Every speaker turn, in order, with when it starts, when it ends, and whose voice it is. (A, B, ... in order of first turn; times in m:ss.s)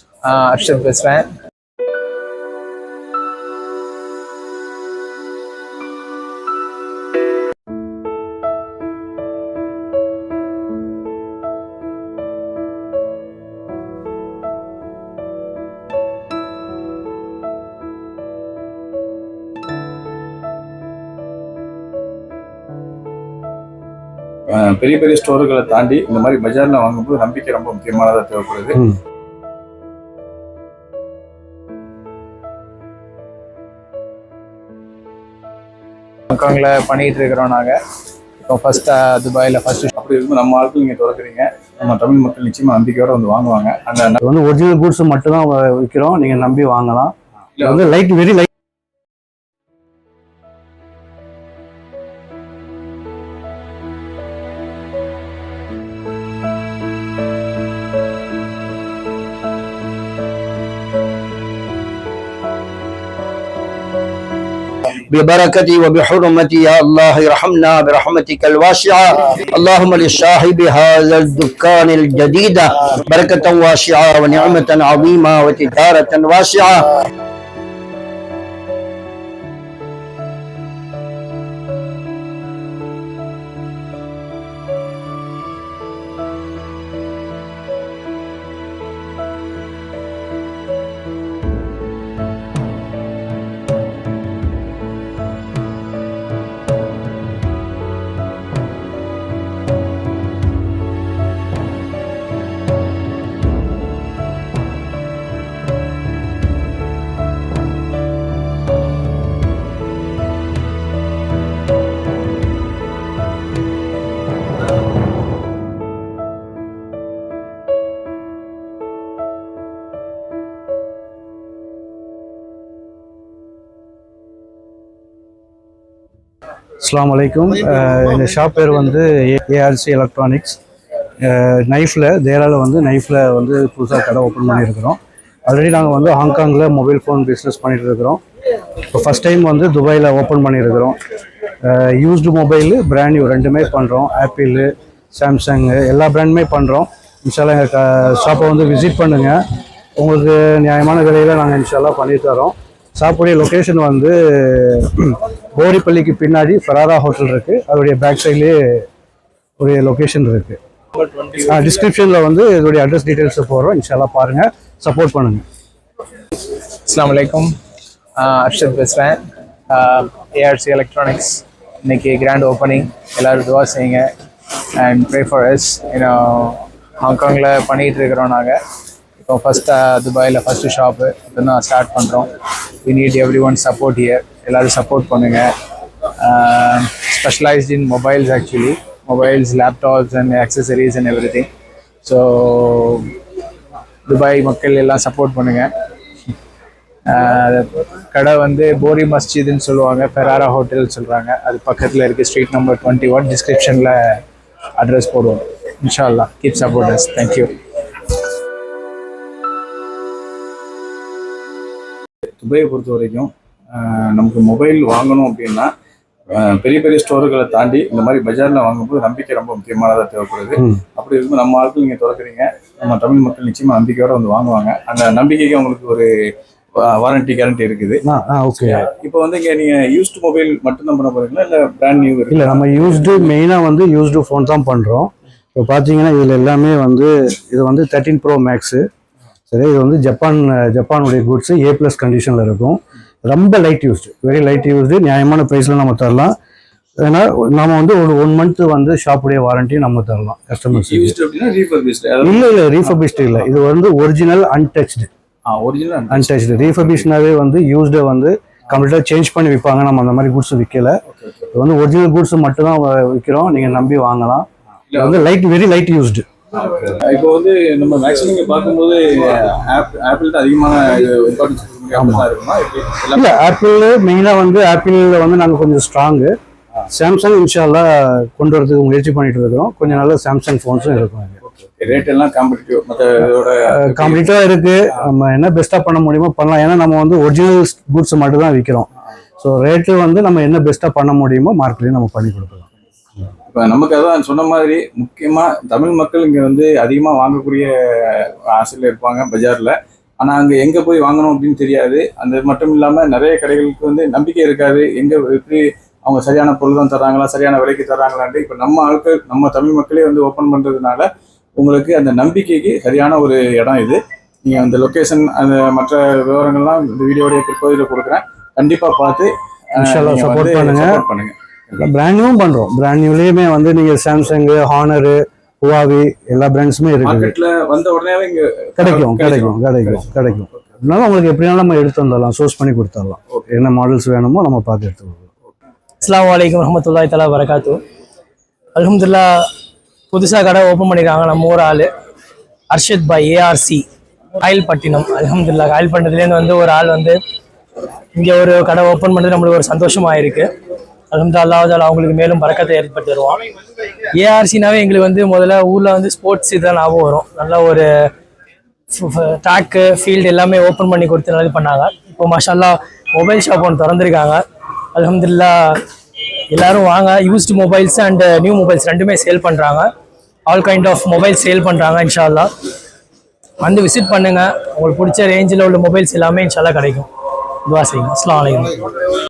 0:00.2-0:01.3 A
0:24.5-0:28.8 B
0:36.3-0:37.8 A
0:38.4-0:39.9 A
0:40.0-0:44.2 B
0:44.2-0:48.5 C
0:47.6-0:47.8 B
1:04.9-1:16.9 D
2:06.8-2:10.6 C
2:11.2-2:18.2 C
2:18.8-2:21.0 C
2:21.6-2:29.4 C
2:30.0-2:38.8 C
2:39.6-2:40.6 C
2:41.3-2:45.4 C
2:46.5-2:47.5 A
2:48.2-2:54.1 A
2:54.8-2:58.6 A
2:59.2-3:02.3 A
3:02.8-3:05.5 A
3:06.2-3:11.5 A
3:12.0-3:13.2 A
3:14.1-3:15.7 A
3:17.1-3:24.0 A
3:24.8-3:27.5 A
3:32.4-3:35.7 B
3:36.3-3:46.1 B
3:46.8-3:48.0 B
3:48.0-3:48.9 C
3:48.5-3:53.3 B
3:52.3-3:58.8 C
3:59.5-4:06.3 C
4:07.0-4:11.1 C
4:10.7-4:12.5 B
4:12.2-4:15.1 C
4:15.4-4:17.1 B
4:16.1-4:21.0 C
4:21.1-4:21.4 B
4:21.5-4:26.2 C
4:24.9-4:25.3 B
4:26.5-4:33.4 B
4:31.9-4:32.3 C
4:33.1-4:36.3 C
4:36.9-4:41.4 C
4:41.5-4:44.2 B
4:43.6-4:48.9 C
4:49.4-4:52.7 C
4:53.5-5:21.8 B
5:19.8-5:21.0 C
5:21.8-5:27.3 C
5:27.0-5:30.7 B
5:28.8-5:35.3 C
5:36.0-5:37.8 E
5:38.7-5:39.4 E
5:40.1-5:41.9 E
5:42.7-5:43.8 E
5:44.4-5:47.2 E
5:48.1-5:50.5 E
5:51.1-5:53.4 E
5:54.1-5:58.1 E
5:58.9-6:04.4 E
6:04.9-6:05.8 E
6:06.5-6:09.9 E
6:10.5-6:12.5 E
6:13.6-6:17.1 E
6:17.6-6:18.9 E